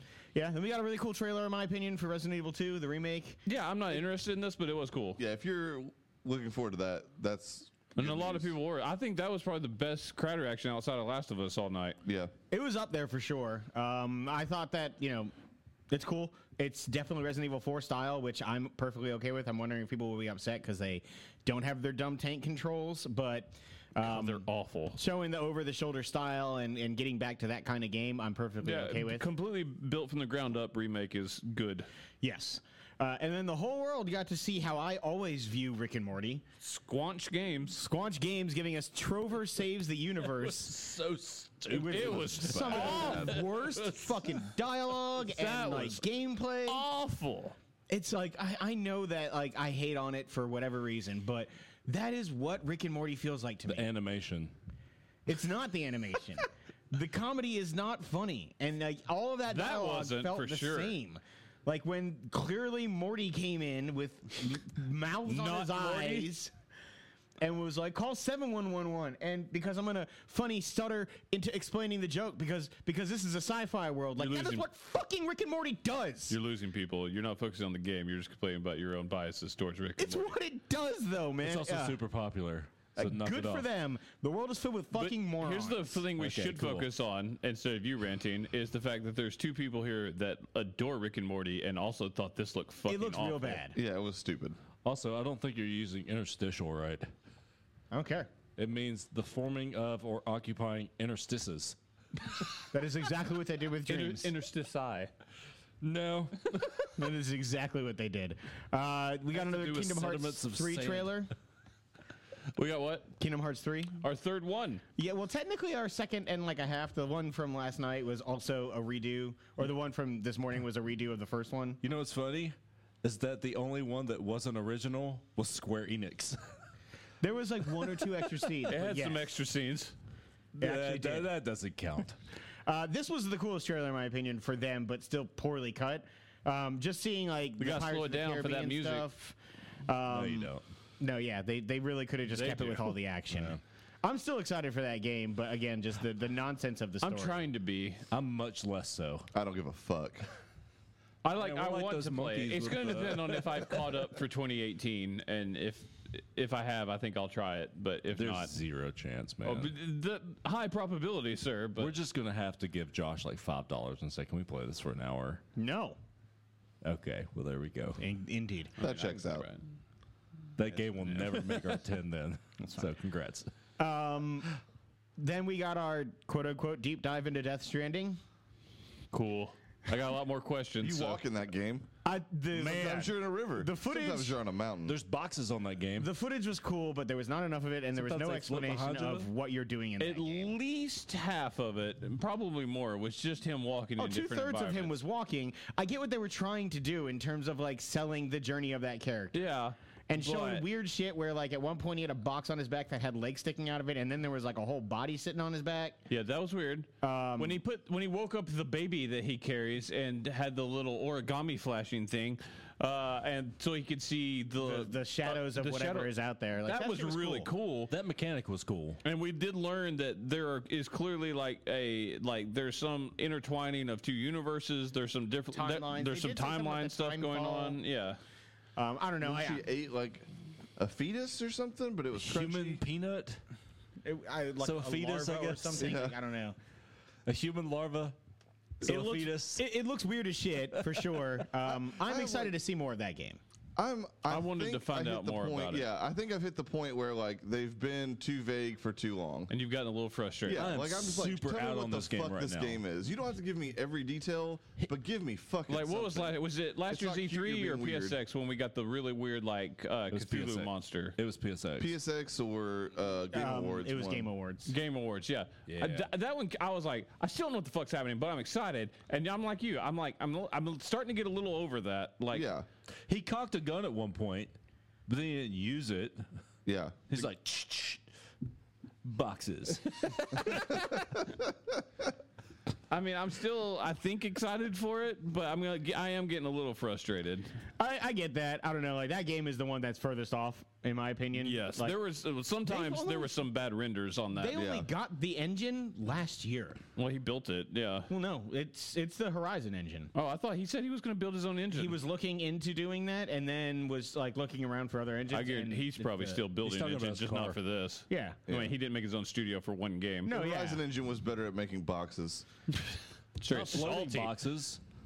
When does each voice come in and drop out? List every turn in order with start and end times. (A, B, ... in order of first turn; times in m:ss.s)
0:00.3-0:03.4 A
0:03.5-0:05.2 B
0:05.2-0:08.5 C
0:08.0-0:12.0 B
0:12.0-0:12.3 C
0:12.5-0:15.3 A
0:15.9-0:29.3 A
0:24.0-0:25.0 B
0:28.6-0:31.9 B
0:32.2-0:36.4 A
0:36.6-0:37.8 B
0:37.8-0:40.8 A
0:40.2-0:43.3 D
0:41.7-0:46.8 A
0:41.8-0:43.9 B
0:42.5-0:43.4 C
0:45.2-0:46.0 B
0:46.7-0:47.6 B
0:47.9-0:53.9 A
0:53.7-0:54.5 D
0:55.3-1:06.5 A
0:59.5-1:01.0 B
1:05.3-1:06.3 B
1:07.4-1:16.4 A
1:14.2-1:14.7 B
1:16.3-1:20.4 B
1:20.0-1:22.0 A
1:21.4-1:23.7 D
1:23.0-1:26.0 A
1:24.9-1:33.6 B
1:26.2-1:26.9 D
1:32.9-1:33.8 A
1:33.7-1:34.6 C
1:34.8-1:37.1 D
1:37.9-1:38.3 A
1:38.6-1:41.8 D
1:42.7-1:44.3 A
1:43.9-1:45.1 B
1:45.8-1:46.7 D
1:47.0-1:51.3 A
1:49.3-1:51.3 D
1:52.6-1:53.1 B
1:53.2-1:54.0 A
1:54.0-1:54.8 B
1:55.0-2:01.8 A
2:01.8-2:06.6 D
2:07.2-2:09.3 A
2:08.7-2:09.9 B
2:10.6-2:12.2 D
2:10.6-2:11.3 A
2:12.7-2:27.4 A
2:17.6-2:19.1 B
2:20.1-2:20.6 D
2:22.3-2:23.0 B
2:23.3-2:23.6 D
2:27.0-2:28.1 B
2:28.1-2:29.3 D
2:29.3-2:30.3 C
2:31.2-2:38.5 B
2:31.4-2:34.0 D
2:38.2-2:39.7 D
2:39.4-2:41.9 B
2:41.8-2:45.4 D
2:45.6-2:46.0 A
2:46.8-2:48.0 D
2:48.0-2:48.7 A
2:48.8-2:49.5 C
2:48.8-2:49.6 B
2:50.6-2:53.5 D
2:51.0-2:51.8 B
2:53.8-2:54.5 A
2:55.2-2:58.2 A
2:59.1-3:01.2 B
3:00.8-3:01.9 C
3:02.0-3:04.4 A
3:02.5-3:05.0 C
3:04.9-3:06.1 D
3:06.0-3:10.5 A
3:07.9-3:09.3 D
3:10.0-3:14.9 B
3:14.0-3:19.4 A
3:19.3-3:20.6 B
3:20.1-3:26.0 A
3:26.1-3:36.1 B
3:27.0-3:27.6 A
3:34.6-3:37.5 A
3:36.6-3:37.9 B
3:37.9-3:39.0 D
3:39.0-3:48.2 B
3:45.5-3:47.8 A
3:48.8-3:49.6 A
3:49.2-3:50.3 C
3:50.8-3:52.8 C
3:52.1-3:53.4 D
3:54.0-3:56.6 A
3:54.6-3:56.0 D
3:55.8-3:56.2 C
3:57.3-3:58.2 D
3:58.8-3:59.7 D
3:58.8-4:03.4 A
4:00.8-4:01.2 D
4:01.6-4:02.5 C
4:03.8-4:09.5 C
4:04.3-4:05.9 B
4:09.5-4:10.7 B
4:10.5-4:18.2 C
4:10.5-4:12.8 D
4:15.7-4:21.2 B
4:20.1-4:21.9 D
4:21.8-4:24.3 C
4:23.3-4:24.7 A
4:24.7-4:32.5 B
4:25.7-4:26.1 D
4:32.3-4:32.6 C
4:33.1-4:34.6 D
4:35.1-4:36.3 D
4:36.7-4:37.3 C
4:37.1-4:38.0 D
4:39.0-4:40.9 D
4:40.6-4:40.8 B
4:42.9-4:47.5 B
4:47.8-4:52.0 A
4:51.4-4:54.6 B
4:52.7-4:53.4 A
4:54.3-4:56.8 A
4:54.6-4:54.9 C
4:57.0-4:58.1 B
4:58.1-5:00.1 A
5:00.1-5:02.0 B
5:01.7-5:06.4 A
5:05.3-5:10.3 B
5:06.6-5:07.6 D
5:08.1-5:08.4 A
5:08.5-5:08.7 C
5:10.3-5:10.8 A
5:10.3-5:12.5 C
5:13.4-5:14.3 B
5:13.5-5:14.8 D